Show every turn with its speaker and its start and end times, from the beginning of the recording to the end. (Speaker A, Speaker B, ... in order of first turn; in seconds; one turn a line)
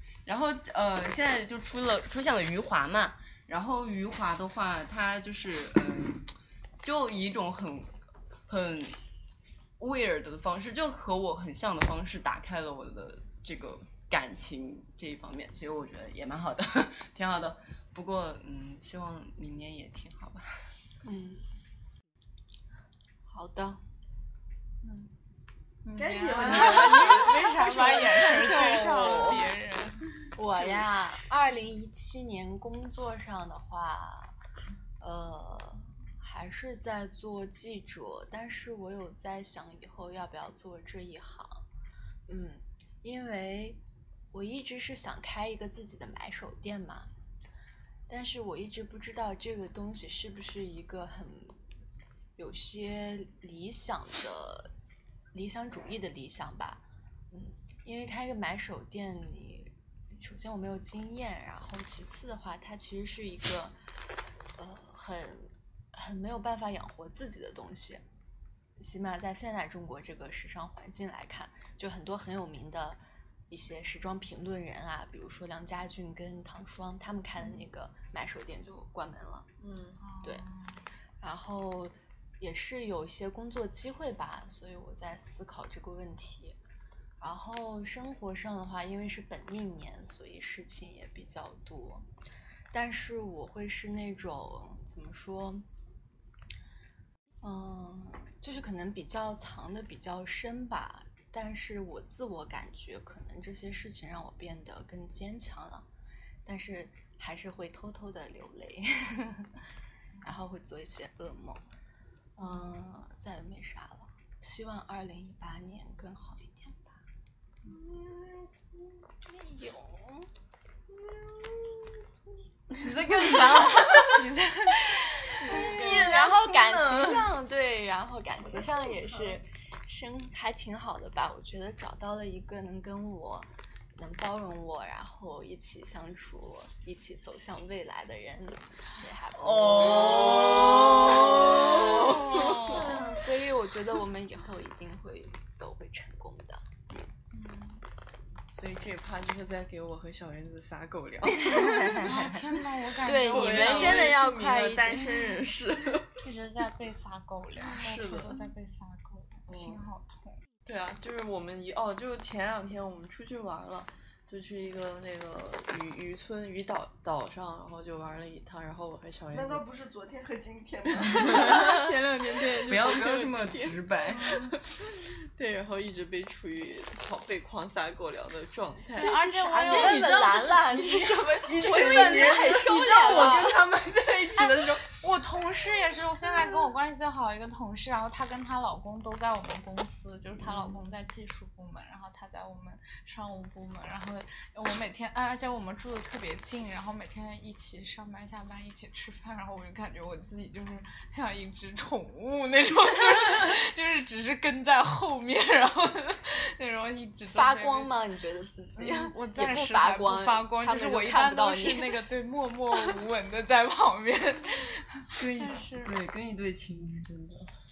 Speaker A: 0.2-7.9
Speaker A: 8.5-9.0
Speaker A: 9.8-20.5
Speaker B: 21.0-21.5
Speaker B: 23.3-23.8
Speaker C: 24.8-25.1
Speaker C: 25.9-30.0
Speaker D: 25.9-27.6
Speaker B: 26.8-29.5
Speaker B: 30.4-34.4
Speaker B: 35.0-41.7
Speaker B: 42.3-47.1
Speaker B: 48.1-51.6
Speaker B: 52.4-54.7
Speaker B: 55.3-63.8
Speaker B: 64.5-68.0
Speaker B: 68.8-79.5
Speaker E: 79.6-80.0
Speaker C: 80.0-80.8
Speaker B: 81.2-86.6
Speaker B: 87.2-92.1
Speaker B: 92.7-95.7
Speaker B: 97.4-105.9
Speaker B: 106.5-109.5
Speaker B: 110.2-111.6
Speaker B: 112.4-117.0
Speaker B: 119.3-120.3
Speaker D: 121.0-121.9
Speaker A: 122.8-124.3
Speaker B: 123.3-123.6
Speaker C: 124.0-125.5
Speaker B: 125.3-146.7
Speaker A: 125.5-127.3
Speaker E: 125.7-126.1
Speaker E: 139.4-143.0
Speaker A: 139.5-141.8
Speaker C: 141.8-142.9
Speaker C: 147.3-147.8
Speaker E: 148.5-152.4
Speaker B: 151.4-152.1
Speaker C: 152.0-154.2
Speaker B: 153.0-155.4
Speaker E: 153.2-156.2
Speaker C: 156.2-160.4
Speaker E: 157.6-158.5
Speaker E: 159.5-159.8
Speaker E: 160.7-169.7
Speaker D: 169.3-171.7
Speaker E: 171.0-179.1
Speaker A: 171.3-171.9
Speaker A: 172.6-174.4
Speaker C: 174.2-174.5
Speaker B: 178.9-183.6
Speaker C: 178.9-180.2
Speaker A: 179.6-184.7
Speaker E: 181.4-184.8
Speaker C: 184.8-208.0
Speaker B: 207.3-212.0
Speaker C: 208.8-216.0
Speaker A: 215.2-217.5